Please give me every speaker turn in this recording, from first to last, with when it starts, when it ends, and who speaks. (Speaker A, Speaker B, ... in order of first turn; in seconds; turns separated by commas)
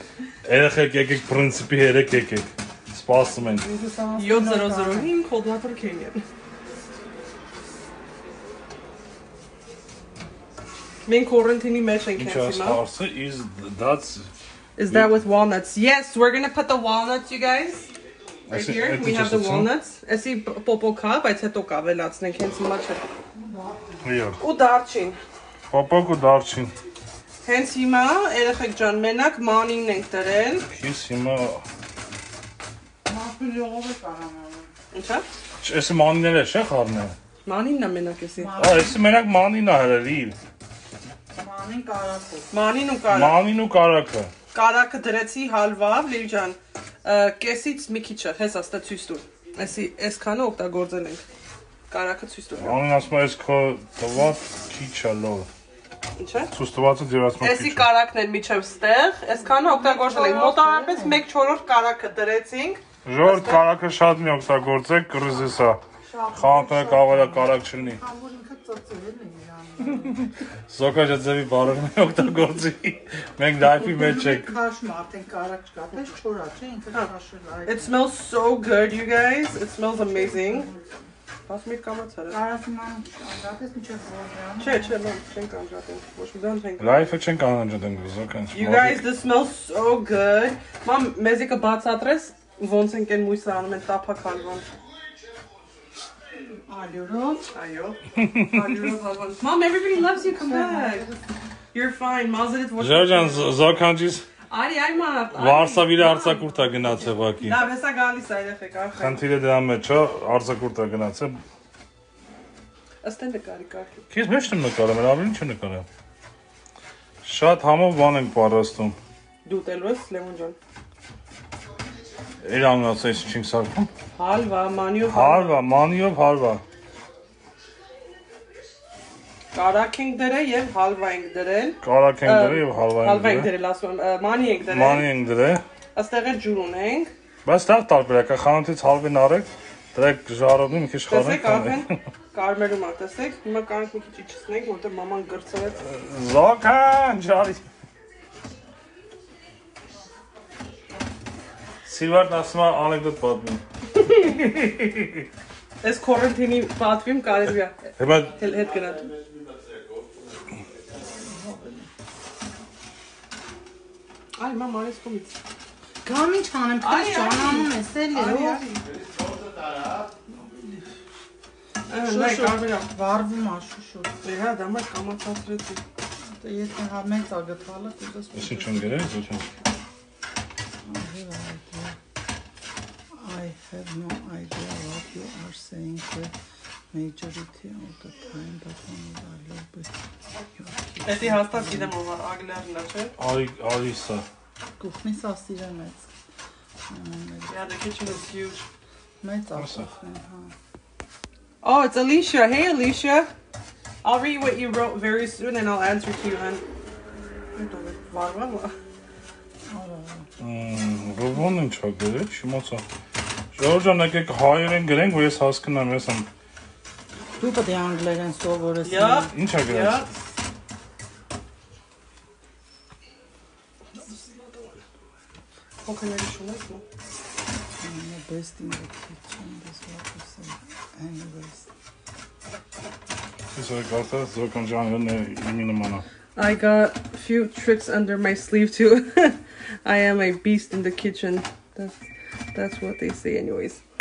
Speaker A: 0.4-3.6, Speaker B: 3.4-5.1, Speaker C: 4.2-6.2, Speaker C: 11.1-12.8, Speaker A: 12.2-14.3, Speaker C: 14.8-17.9, Speaker A: 14.8-15.2, Speaker C: 18.5-23.0, Speaker A: 18.5-19.7, Speaker B: 23.3-24.0, Speaker A: 24.0-24.4, Speaker C: 24.4-25.2, Speaker A: 25.7-26.7, Speaker C: 27.4-30.7, Speaker A: 30.7-31.6, Speaker B: 33.0-34.7, Speaker C: 34.9-35.2, Speaker A: 35.6-37.1, Speaker C: 37.4-38.5, Speaker B: 38.4-39.0, Speaker A: 38.5-40.4, Speaker B: 41.3-42.5, Speaker C: 42.5-43.4, Speaker A: 43.1-44.3, Speaker C: 44.5-51.2, Speaker C: 51.9-52.8, Speaker A: 52.6-55.5, Speaker C: 56.2-56.5, Speaker A: 56.5-57.9, Speaker C: 57.4-63.6, Speaker B: 59.4-61.2, Speaker A: 63.0-65.8, Speaker C: 66.1-67.0, Speaker A: 66.3-68.0, Speaker B: 66.4-70.3, Speaker A: 70.7-74.6, Speaker B: 73.8-77.9, Speaker C: 77.7-80.7, Speaker B: 80.1-81.0, Speaker C: 81.5-82.4, Speaker B: 82.3-85.0, Speaker C: 84.6-87.2, Speaker A: 86.8-89.0, Speaker C: 88.5-94.7, Speaker B: 96.7-97.5, Speaker C: 97.5-101.1, Speaker A: 98.2-98.6, Speaker B: 100.0-101.2, Speaker C: 101.7-103.5, Speaker A: 102.8-104.2, Speaker C: 104.5-106.6, Speaker A: 105.3-107.6, Speaker C: 107.4-109.2, Speaker A: 108.9-111.4, Speaker C: 113.0-114.0, Speaker A: 114.1-115.9, Speaker A: 117.2-119.0, Speaker C: 119.4-120.6, Speaker A: 122.4-123.9, Speaker C: 124.1-125.5, Speaker A: 125.0-126.6, Speaker C: 129.5-135.1, Speaker A: 131.8-133.5, Speaker A: 134.7-135.6, Speaker C: 135.9-137.1, Speaker A: 137.4-142.0, Speaker C: 141.1-145.8, Speaker A: 145.8-147.6, Speaker A: 151.8-155.2, Speaker C: 154.0-154.3, Speaker C: 155.8-159.1, Speaker A: 158.0-158.4, Speaker B: 161.2-161.9, Speaker C: 164.4-165.3, Speaker B: 166.0-168.6, Speaker C: 166.8-168.9, Speaker C: 171.9-172.9, Speaker B: 172.0-174.2, Speaker C: 174.2-175.8, Speaker B: 176.3-179.4, Speaker A: 178.3-179.5, Speaker B: 180.8-181.9, Speaker B: 183.1-186.3, Speaker B: 186.9-189.9, Speaker B: 190.5-191.9, Speaker C: 191.0-193.1, Speaker A: 193.2-194.2, Speaker B: 194.8-196.1, Speaker B: 196.9-197.7, Speaker C: 197.5-198.7, Speaker B: 199.2-200.5, Speaker A: 199.6-199.9, Speaker C: 201.6-203.3, Speaker C: 204.0-206.6, Speaker C: 207.5-208.7, Speaker B: 209.7-210.3, Speaker A: 210.4-212.8, Speaker A: 213.5-216.3, Speaker B: 217.4-219.3, Speaker C: 218.8-220.1, Speaker A: 219.3-220.0, Speaker C: 224.0-224.7, Speaker C: 225.8-226.8, Speaker B: 227.8-231.7, Speaker A: 233.5-236.0, Speaker C: 236.3-241.9, Speaker C: 242.5-243.8